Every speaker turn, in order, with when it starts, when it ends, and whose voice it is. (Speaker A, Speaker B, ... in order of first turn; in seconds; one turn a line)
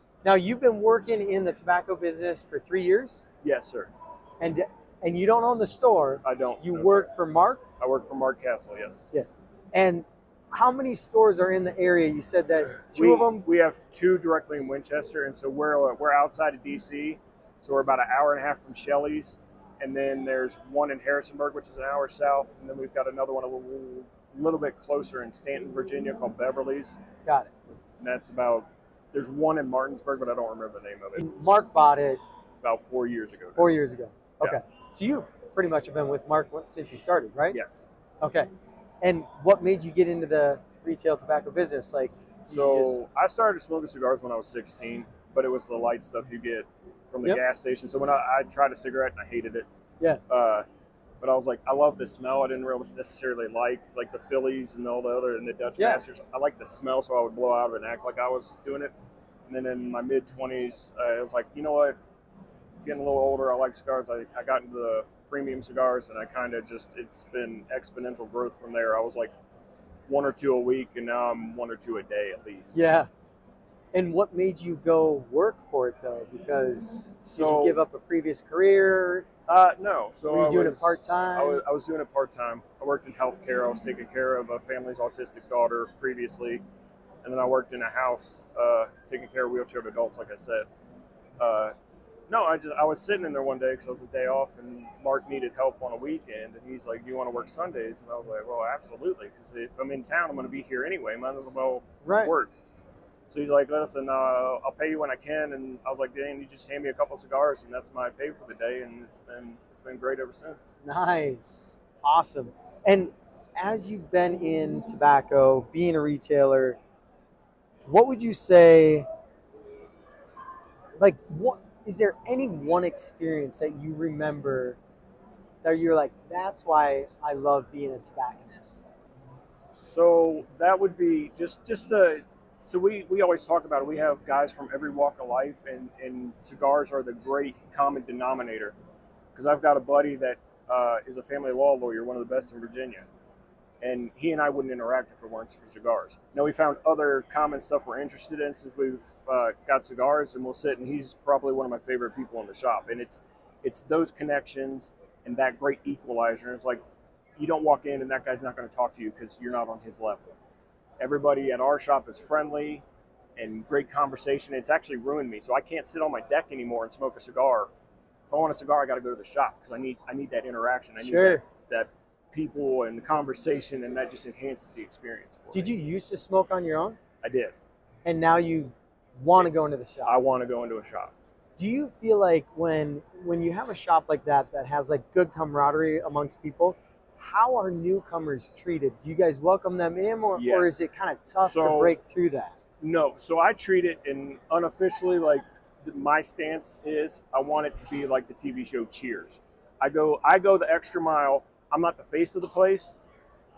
Speaker A: 0.2-3.2
Speaker B: 3.4-3.9
Speaker A: 4.4-7.6
Speaker B: 6.2-7.1
Speaker B: 7.8-9.1
Speaker A: 9.1-13.4
Speaker B: 12.9-27.0
Speaker A: 27.2-27.5
Speaker B: 28.0-31.2
Speaker A: 31.2-32.2
Speaker B: 32.6-33.7
Speaker A: 33.5-37.6
Speaker B: 37.5-37.9
Speaker A: 38.2-38.5
Speaker A: 39.0-43.0
Speaker B: 42.5-49.6
Speaker B: 50.3-50.6
Speaker B: 51.2-58.9
Speaker A: 55.8-56.0
Speaker B: 59.5-62.0
Speaker B: 62.8-69.3
Speaker B: 70.1-72.8
Speaker A: 72.7-73.1
Speaker A: 73.9-79.2
Speaker B: 77.2-77.8
Speaker B: 79.5-86.6
Speaker A: 80.3-81.6
Speaker B: 87.2-90.7
Speaker B: 91.4-91.7
Speaker B: 92.3-102.5
Speaker A: 102.0-102.3
Speaker B: 103.3-110.7
Speaker A: 110.8-116.8
Speaker A: 117.8-119.1
Speaker A: 121.0-124.8
Speaker A: 125.6-128.9
Speaker B: 129.7-138.7
Speaker B: 139.3-143.1
Speaker B: 143.8-156.8
Speaker B: 157.4-160.3
Speaker B: 161.0-162.8
Speaker B: 163.3-167.7
Speaker B: 168.3-175.7
Speaker A: 171.0-171.4
Speaker A: 175.5-177.0
Speaker B: 177.2-177.6
Speaker A: 178.0-180.2
Speaker B: 180.1-181.1
Speaker A: 181.6-192.5
Speaker B: 190.3-190.8
Speaker B: 191.4-191.9
Speaker B: 192.8-202.9